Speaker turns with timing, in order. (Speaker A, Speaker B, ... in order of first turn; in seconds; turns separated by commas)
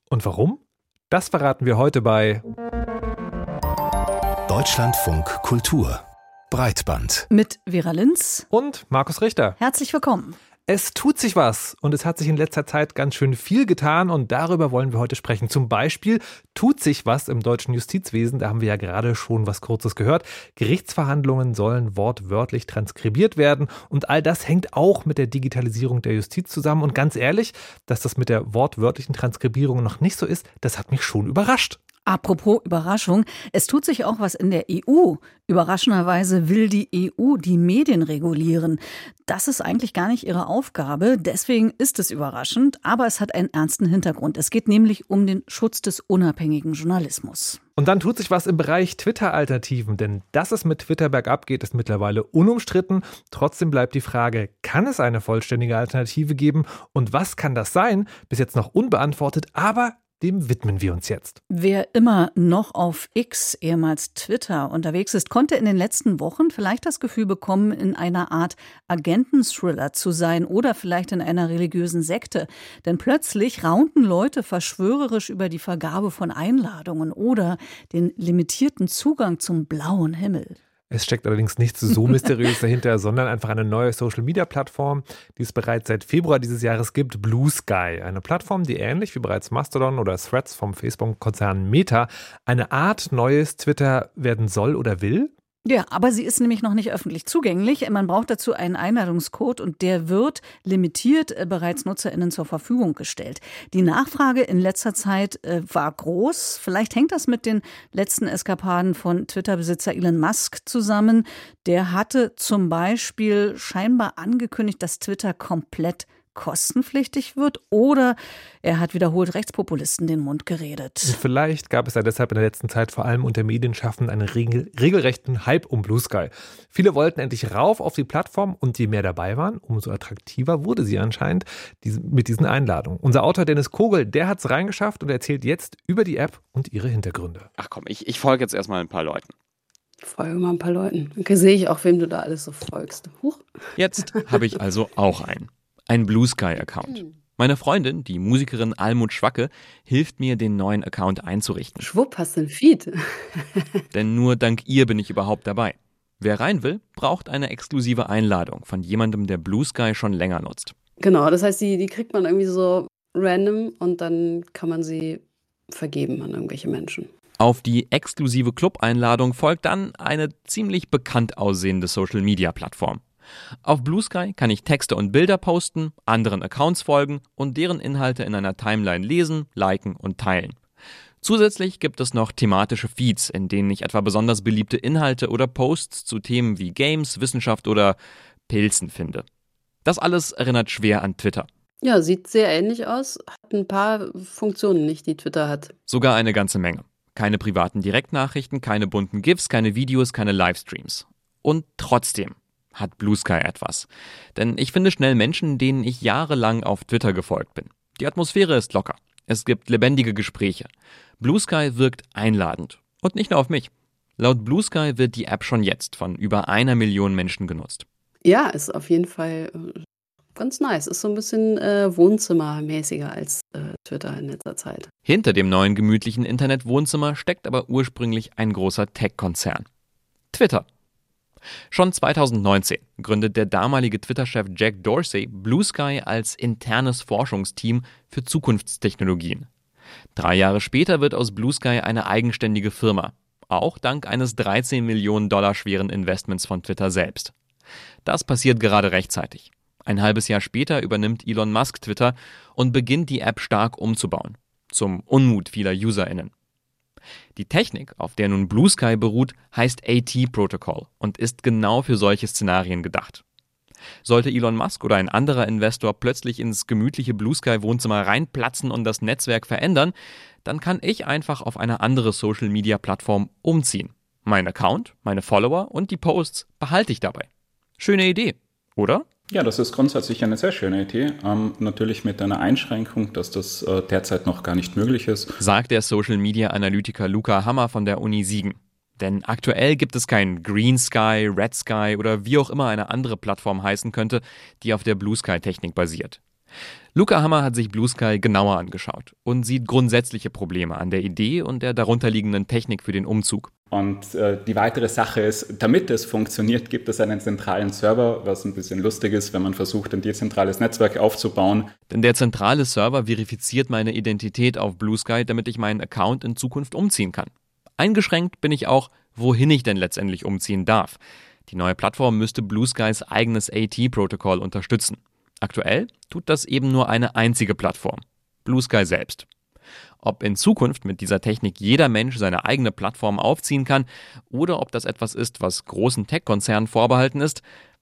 Speaker A: 0.1-2.4, Speaker B: 4.5-7.3, Speaker C: 7.3-8.5, Speaker A: 8.5-9.6, Speaker C: 9.6-10.4, Speaker A: 10.7-31.8, Speaker C: 32.1-47.6, Speaker A: 47.8-61.4, Speaker C: 61.5-80.6, Speaker A: 80.9-95.3, Speaker C: 95.7-121.2, Speaker A: 121.0-137.5, Speaker D: 137.6-139.3, Speaker E: 140.0-143.5, Speaker D: 143.8-151.8, Speaker E: 151.8-153.8, Speaker D: 153.9-160.8, Speaker E: 161.0-167.1, Speaker D: 167.4-173.0, Speaker D: 173.6-180.6, Speaker D: 181.2-188.0, Speaker D: 188.5-189.3, Speaker D: 189.8-191.5, Speaker E: 191.8-195.7, Speaker D: 195.9-217.8, Speaker E: 218.2-219.8, Speaker E: 220.4-224.9, Speaker D: 225.1-229.7, Speaker D: 230.3-230.7, Speaker D: 231.7-239.5, Speaker D: 240.2-247.3, Speaker D: 248.1-256.3, Speaker D: 257.4-263.2, Speaker D: 264.0-269.9, Speaker D: 270.4-277.3, Speaker D: 277.8-279.1, Speaker F: 279.3-285.4, Speaker D: 285.4-296.2, Speaker D: 296.9-303.5, Speaker F: 303.7-311.7, Speaker D: 311.9-329.3, Speaker D: 330.0-337.4